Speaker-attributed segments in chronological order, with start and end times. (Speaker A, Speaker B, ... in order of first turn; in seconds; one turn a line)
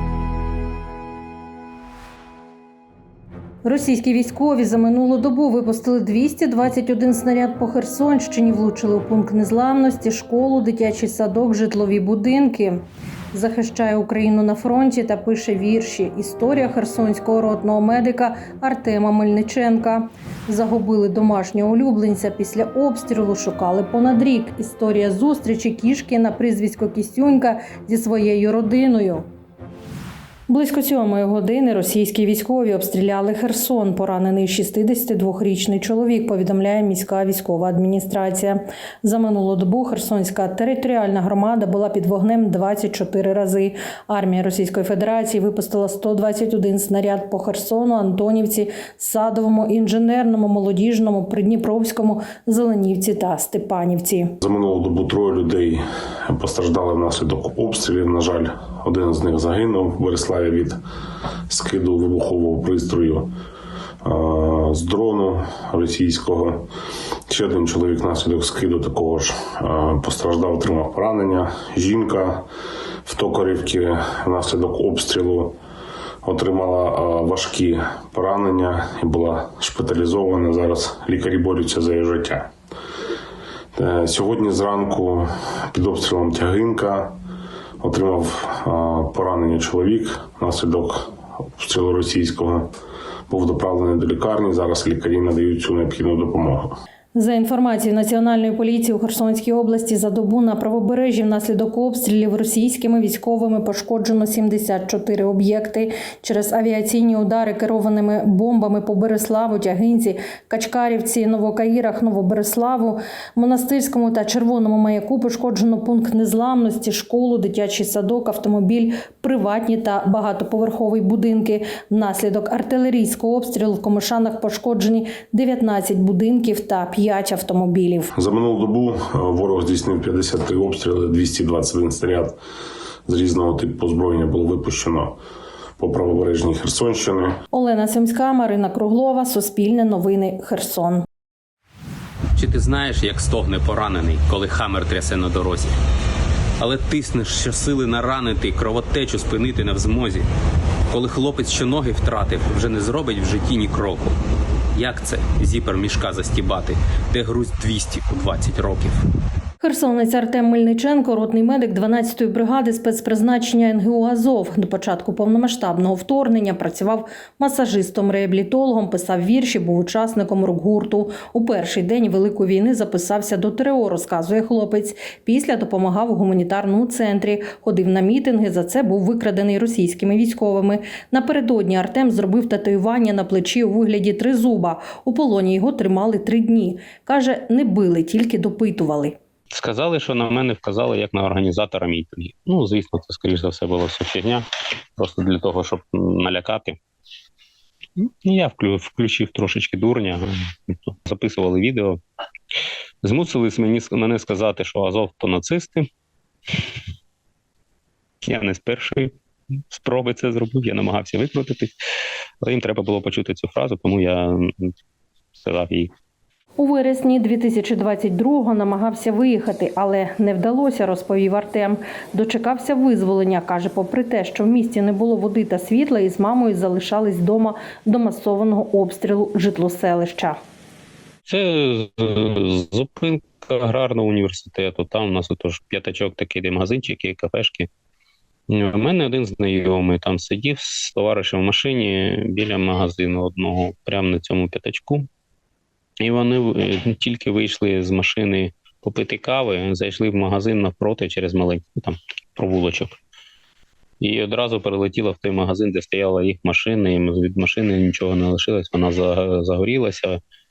Speaker A: 3.6-29.3
Speaker A: 30.5-54.3
Speaker B: 54.4-60.8
Speaker B: 61.5-63.3
Speaker B: 64.0-66.7
Speaker B: 67.3-72.5
Speaker B: 73.1-75.6
Speaker B: 76.2-82.5
Speaker B: 83.8-87.1
Speaker B: 87.8-92.7
Speaker B: 93.3-96.8
Speaker A: 97.1-128.1
Speaker B: 128.2-132.4
Speaker B: 133.1-135.2
Speaker B: 135.8-137.4
Speaker A: 137.5-141.1
Speaker C: 142.4-145.8
Speaker C: 146.6-150.2
Speaker C: 150.9-154.1
Speaker C: 154.8-159.0
Speaker A: 159.6-189.2
Speaker C: 189.5-196.8
Speaker C: 198.0-202.0
Speaker C: 203.0-205.9
Speaker C: 208.2-209.1
Speaker C: 209.7-211.7
Speaker C: 212.4-214.7
Speaker C: 215.4-215.9
Speaker A: 216.6-230.4
Speaker C: 231.3-237.7
Speaker C: 238.5-245.1
Speaker C: 246.0-252.9
Speaker C: 254.0-260.2